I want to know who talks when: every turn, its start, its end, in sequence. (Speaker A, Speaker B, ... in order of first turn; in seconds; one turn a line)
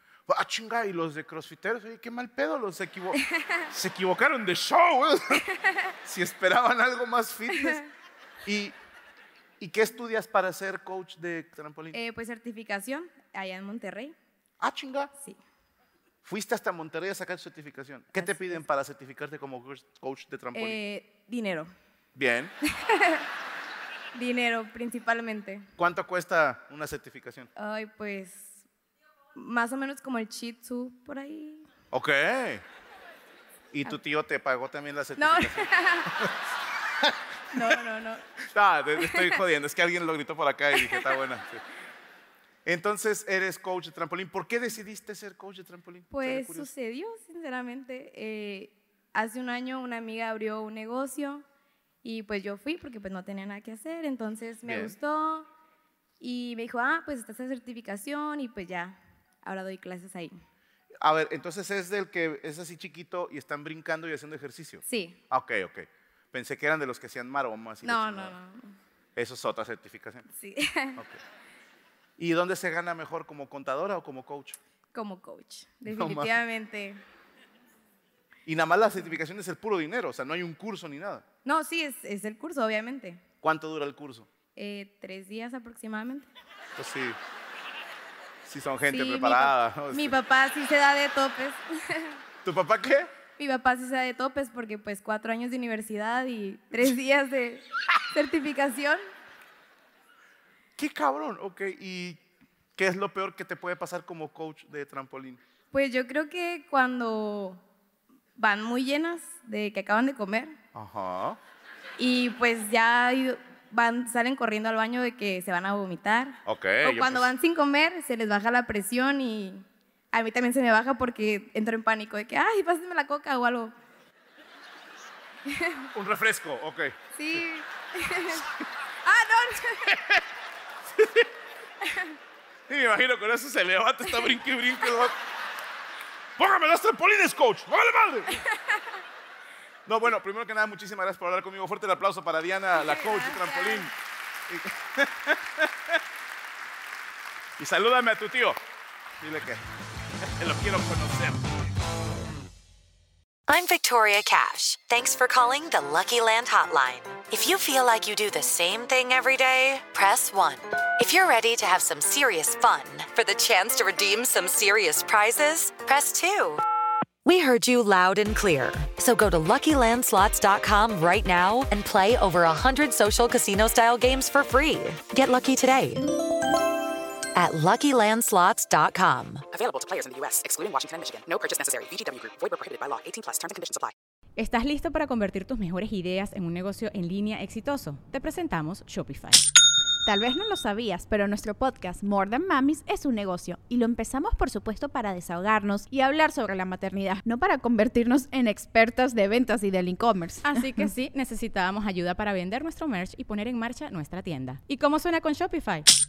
Speaker A: 0.3-5.5
Speaker A: 6.0-7.8
Speaker B: 7.6-7.9
Speaker A: 8.4-8.7
Speaker A: 9.6-12.0
Speaker B: 11.9-14.2
Speaker A: 14.6-15.1
Speaker A: 16.2-20.8
Speaker B: 18.1-18.6
Speaker B: 20.5-21.7
Speaker A: 22.1-22.5
Speaker B: 22.8-23.2
Speaker B: 24.1-25.6
Speaker A: 25.8-27.5
Speaker B: 27.6-28.6
Speaker B: 29.3-31.7
Speaker A: 31.9-32.6
Speaker A: 33.7-36.3
Speaker B: 35.2-36.1
Speaker B: 37.5-38.3
Speaker A: 38.5-41.6
Speaker B: 39.0-39.3
Speaker B: 40.8-41.2
Speaker A: 42.6-46.7
Speaker B: 46.1-51.4
Speaker B: 52.0-55.5
Speaker A: 54.6-55.0
Speaker B: 56.2-60.3
Speaker A: 61.0-68.4
Speaker B: 64.9-65.2
Speaker B: 67.8-68.7
Speaker A: 69.2-70.2
Speaker B: 70.4-71.0
Speaker A: 72.2-74.6
Speaker B: 74.9-77.0
Speaker A: 75.9-76.4
Speaker A: 78.5-81.2
Speaker B: 81.4-83.2
Speaker A: 83.4-84.3
Speaker B: 84.5-86.3
Speaker A: 86.8-87.2
Speaker A: 88.4-90.2
Speaker B: 88.9-92.2
Speaker A: 92.4-93.1
Speaker B: 93.4-99.0
Speaker A: 100.8-102.2
Speaker A: 102.8-105.4
Speaker B: 105.7-107.6
Speaker B: 108.3-110.5
Speaker A: 110.7-111.4
Speaker B: 112.0-123.7
Speaker A: 116.5-117.3
Speaker B: 125.5-125.8
Speaker A: 125.9-127.4
Speaker B: 127.2-128.4
Speaker B: 129.0-129.9
Speaker A: 129.9-130.2
Speaker A: 131.0-131.3
Speaker B: 131.8-132.1
Speaker A: 132.7-135.1
Speaker A: 136.4-138.4
Speaker B: 138.5-138.9
Speaker A: 139.8-143.9
Speaker B: 142.7-143.9
Speaker A: 144.5-146.0
Speaker A: 147.6-148.6
Speaker A: 149.2-149.6
Speaker A: 150.2-151.4
Speaker C: 153.5-166.5
Speaker C: 167.2-175.9
Speaker C: 177.4-179.1
Speaker D: 179.5-183.9
Speaker E: 184.4-189.4
Speaker F: 190.1-200.9
Speaker E: 200.4-205.8